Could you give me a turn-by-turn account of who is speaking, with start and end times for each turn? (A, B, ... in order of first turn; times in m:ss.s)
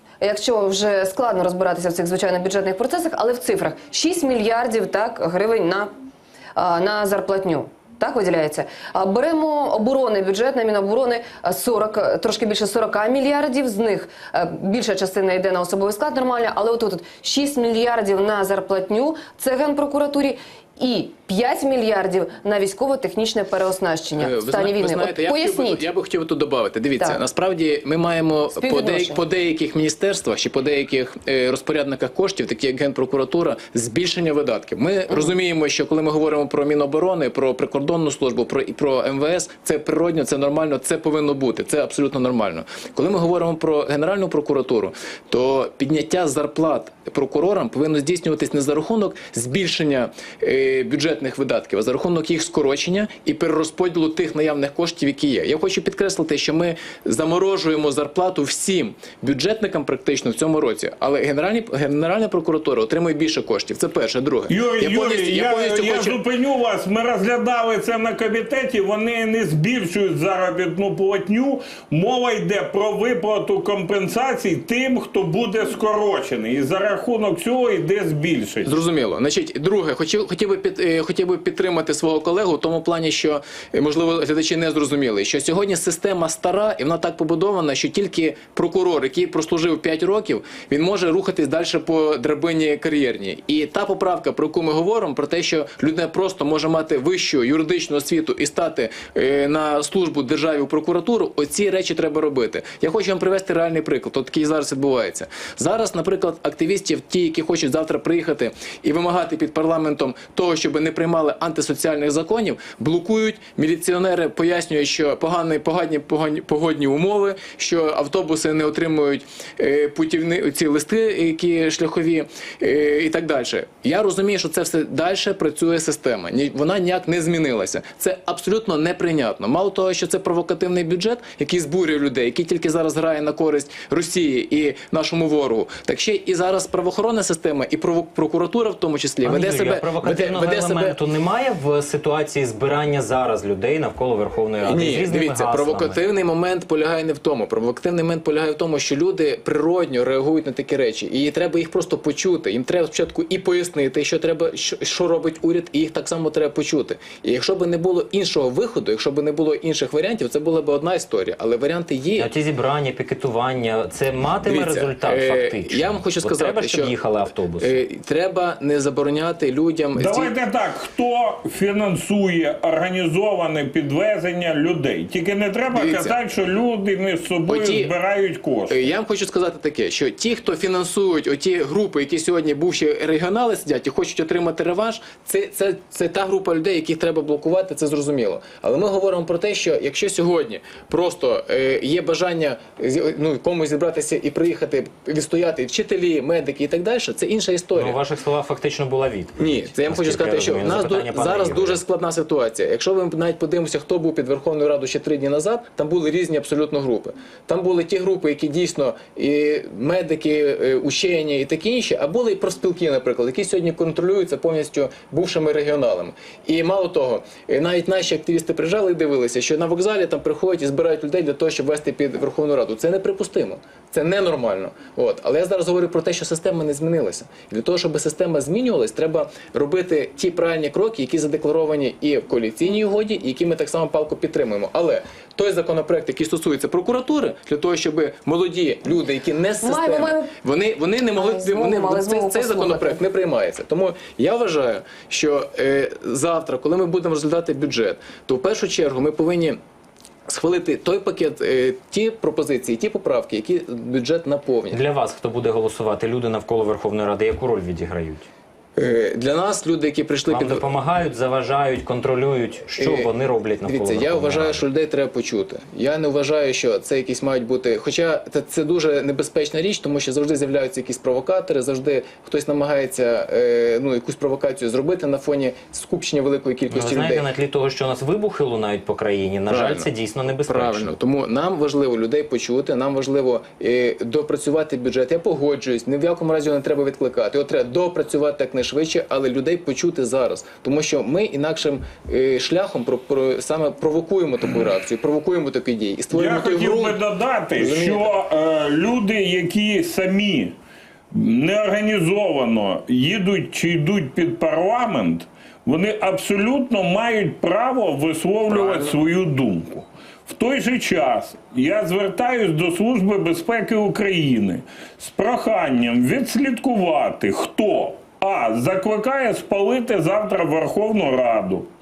0:00.2-0:05.9 A
0:06.6-0:25.8 A
0:24.1-1:06.2 B
0:28.5-0:29.2 A
1:04.5-1:18.7 C
1:18.6-2:21.0 B
2:19.2-2:26.0 D
2:24.6-2:42.3 B
2:42.2-2:47.7 D
2:44.4-2:46.9 B
2:47.6-2:50.3 B
2:49.9-2:58.9 C
2:55.7-2:56.2 B
2:57.5-2:57.9 B
2:58.7-3:18.0 B
3:17.8-3:21.8 D
3:19.4-4:09.6 B
3:59.6-4:00.3 A
4:01.1-4:03.0 A
4:10.3-4:14.8 B
4:14.7-4:18.2 D
4:18.8-4:20.6 B
4:20.3-4:24.6 D
4:22.7-4:37.2 B
4:36.7-4:40.9 D
4:39.5-4:39.9 B
4:40.4-4:57.0 B
4:56.1-5:00.5 C
4:57.5-4:58.1 B
5:01.1-5:21.7 C
5:08.5-5:08.9 B